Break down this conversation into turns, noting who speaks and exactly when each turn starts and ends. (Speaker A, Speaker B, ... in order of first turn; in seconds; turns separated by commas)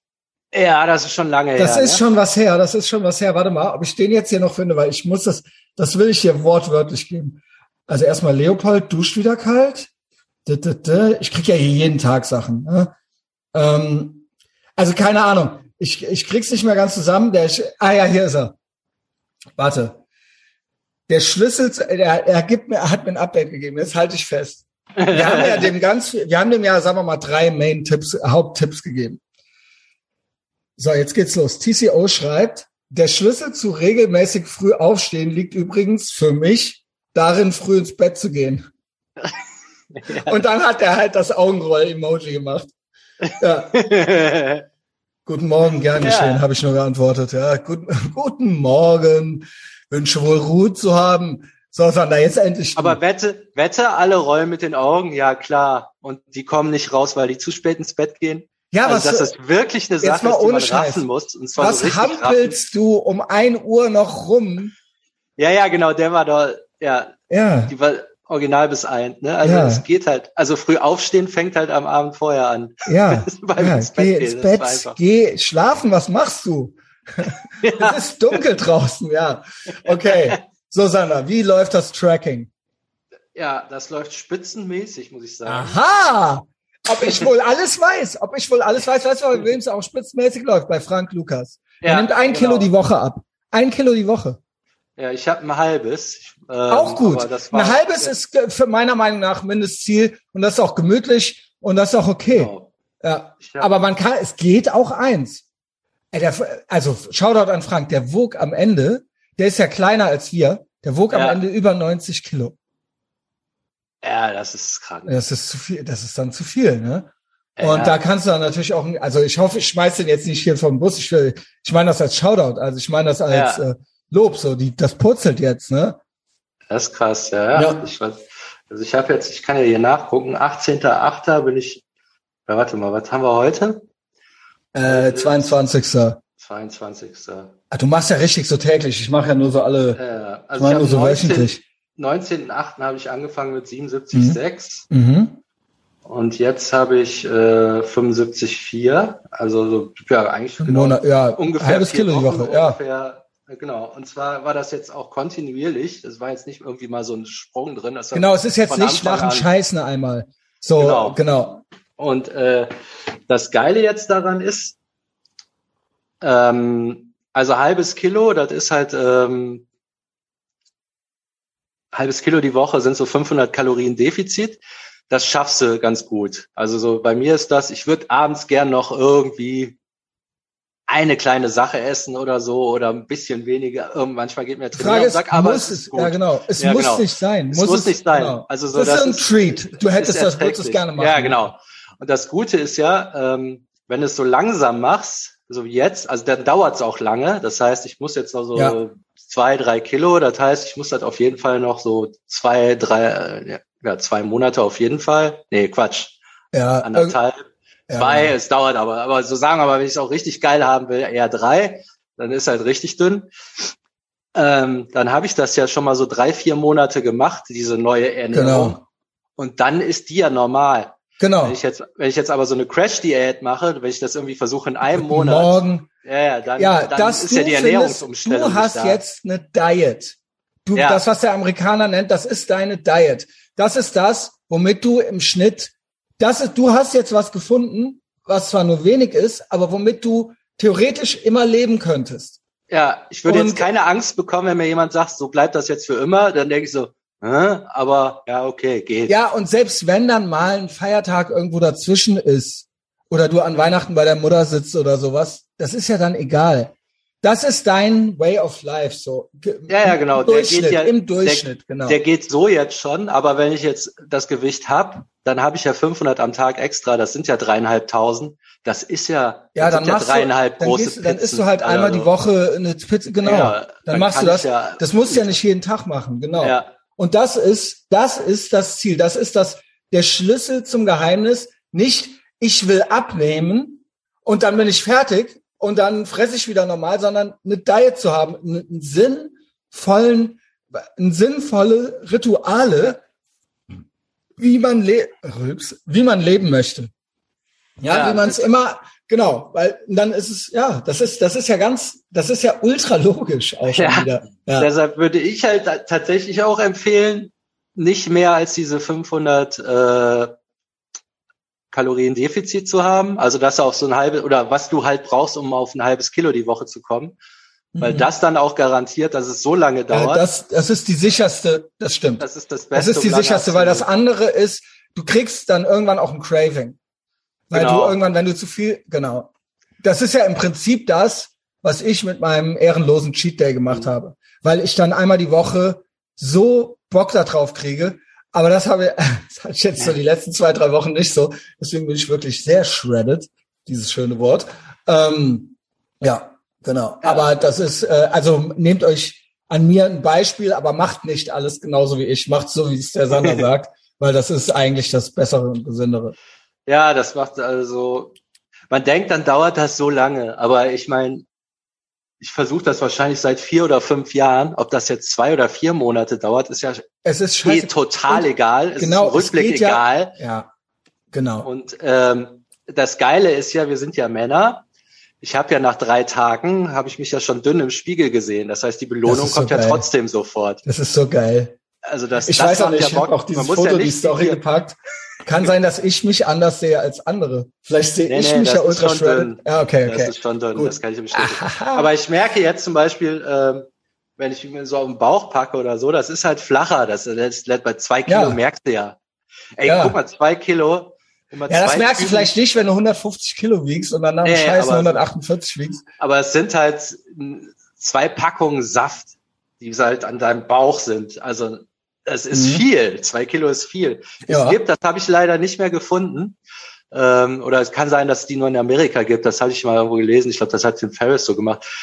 Speaker A: 0.5-2.0, Speaker B: 1.6-9.9, Speaker B: 10.5-12.9, Speaker B: 13.5-14.3, Speaker B: 14.8-18.6, Speaker B: 19.6-20.0, Speaker B: 21.1-29.2, Speaker A: 25.0-25.8, Speaker B: 30.8-38.7, Speaker A: 40.0-40.4, Speaker B: 40.2-42.7, Speaker A: 43.2-44.6, Speaker B: 43.4-43.7, Speaker B: 45.3-53.0, Speaker A: 46.0-46.4, Speaker A: 52.8-62.6, Speaker B: 58.7-59.3, Speaker B: 60.0-61.0, Speaker B: 61.6-64.7, Speaker A: 65.4-75.0, Speaker B: 67.3-67.7, Speaker B: 69.4-69.8, Speaker B: 72.9-82.5, Speaker A: 77.6-78.0, Speaker A: 80.0-80.3, Speaker A: 83.3-85.8, Speaker B: 85.5-94.4, Speaker A: 91.8-92.7, Speaker A: 95.0-98.1, Speaker B: 96.7-105.5, Speaker A: 102.3-102.7, Speaker A: 103.4-103.7, Speaker B: 106.1-112.5, Speaker A: 111.1-111.4, Speaker A: 114.0-115.2, Speaker B: 115.1-117.1, Speaker A: 117.6-118.0, Speaker B: 117.6-126.0, Speaker A: 123.3-123.6, Speaker A: 126.7-131.8, Speaker B: 127.5-127.9, Speaker A: 132.5-133.8, Speaker B: 134.7-136.2, Speaker A: 134.8-135.6, Speaker A: 136.4-137.6, Speaker B: 137.7-140.0, Speaker A: 139.9-144.9, Speaker B: 140.6-141.6, Speaker B: 144.1-144.4, Speaker B: 144.9-145.4, Speaker A: 146.1-159.5, Speaker B: 150.6-152.8, Speaker B: 158.1-161.6, Speaker A: 160.8-161.2, Speaker A: 162.0-162.7, Speaker A: 163.3-164.8, Speaker A: 166.2-169.7, Speaker A: 171.9-179.8, Speaker A: 180.9-206.2, Speaker B: 184.7-191.4, Speaker B: 206.5-207.2, Speaker A: 206.8-213.3, Speaker B: 207.9-208.3, Speaker A: 214.3-218.8, Speaker B: 218.3-218.8, Speaker A: 219.4-229.0, Speaker B: 221.2-221.6, Speaker B: 224.8-225.9, Speaker B: 226.6-242.4, Speaker A: 230.8-231.0, Speaker A: 242.7-249.2, Speaker B: 243.3-243.7, Speaker B: 249.1-262.0, Speaker A: 259.7-272.1, Speaker B: 269.6-293.0, Speaker A: 273.2-275.4, Speaker A: 276.4-276.7, Speaker B: 294.4-296.9, Speaker B: 297.8-304.7, Speaker A: 297.9-298.5, Speaker A: 303.7-310.3, Speaker A: 311.7-317.1, Speaker B: 317.7-318.1, Speaker A: 317.8-320.2, Speaker B: 319.9-326.8, Speaker A: 322.2-323.9, Speaker B: 327.5-329.3, Speaker A: 327.5-328.0, Speaker B: 329.8-356.1, Speaker A: 347.0-347.5, Speaker A: 353.1-353.4, Speaker A: 356.7-358.1, Speaker A: 358.7-361.3, Speaker A: 362.2-366.9, Speaker B: 367.0-370.5, Speaker A: 367.4-370.2, Speaker B: 371.1-371.5, Speaker A: 371.4-374.6, Speaker A: 375.2-380.6, Speaker B: 379.1-379.9, Speaker B: 380.6-381.6, Speaker A: 381.9-384.4, Speaker B: 382.3-391.9, Speaker A: 388.1-393.7, Speaker A: 394.2-399.0, Speaker B: 398.1-398.4, Speaker A: 399.6-402.3, Speaker B: 399.6-400.0, Speaker B: 401.5-405.9, Speaker A: 404.2-405.0, Speaker A: 406.0-416.4, Speaker B: 412.3-412.6, Speaker B: 414.3-414.6, Speaker A: 416.9-421.6